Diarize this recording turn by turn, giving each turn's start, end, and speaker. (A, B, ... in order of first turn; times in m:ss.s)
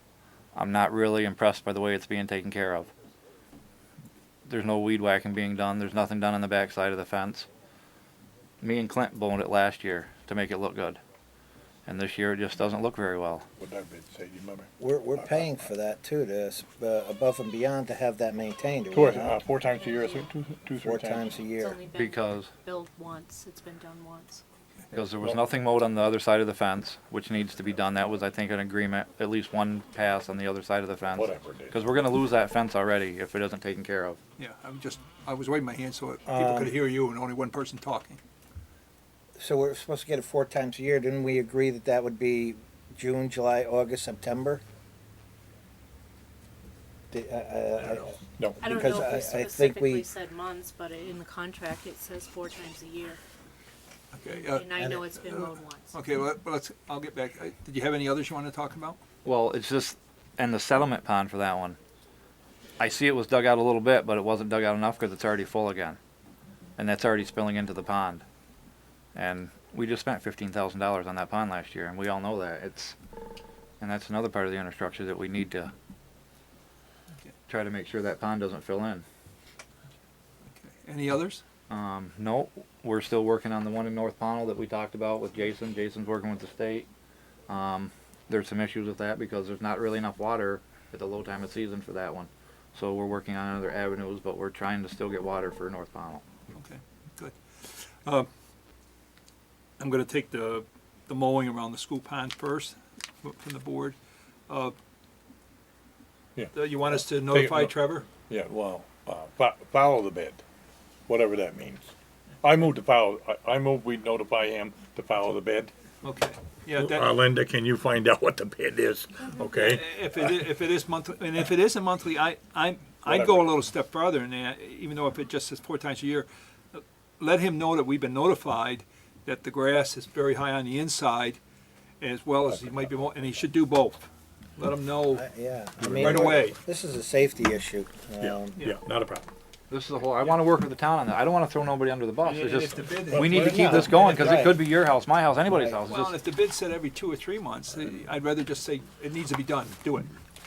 0:00.5-0:02.9 A
0:04.5-0:07.5 A
0:08.6-0:11.0 A
0:11.9-0:13.4 A
0:13.6-0:15.7 B
0:14.8-0:19.4 C
0:18.9-0:21.5 B
0:20.8-0:21.8 C
0:21.6-0:24.4 D
0:21.9-0:22.5 A
0:24.9-0:34.2 A
0:31.1-0:31.8 B
0:34.4-0:38.2 E
0:36.3-0:36.8 C
0:39.4-0:44.6 C
0:47.1-0:50.1 C
0:48.3-0:49.1 B
0:48.6-0:53.2 D
0:54.1-0:59.0 E
0:54.5-0:56.0 D
0:59.2-1:01.8 A
1:02.8-1:06.0 A
1:06.8-1:08.2 A
1:09.1-1:12.9 A
1:13.8-1:15.7 A
1:17.5-1:19.0 A
1:20.5-1:21.4 E
1:21.7-1:26.9 A
1:27.5-1:36.2 A
1:36.5-1:38.3 E
1:39.8-1:44.0 E
1:44.5-1:44.8 E
1:46.3-1:50.4 B
1:46.5-1:48.1 E
1:51.1-1:55.7 B
1:56.0-1:57.2 E
1:56.7-2:00.4 B
1:59.5-2:11.4 E
2:03.0-2:03.5 B
2:12.0-2:15.2 E
2:12.4-2:13.0 B
2:15.1-2:18.6 C
2:15.8-2:16.4 B
2:15.9-2:16.6 E
2:18.2-2:19.3 B
2:19.7-2:26.2 A
2:22.2-2:24.3 E
2:23.0-2:23.9 B
2:23.3-2:24.6 C
2:25.5-2:25.8 C
2:25.9-2:30.1 E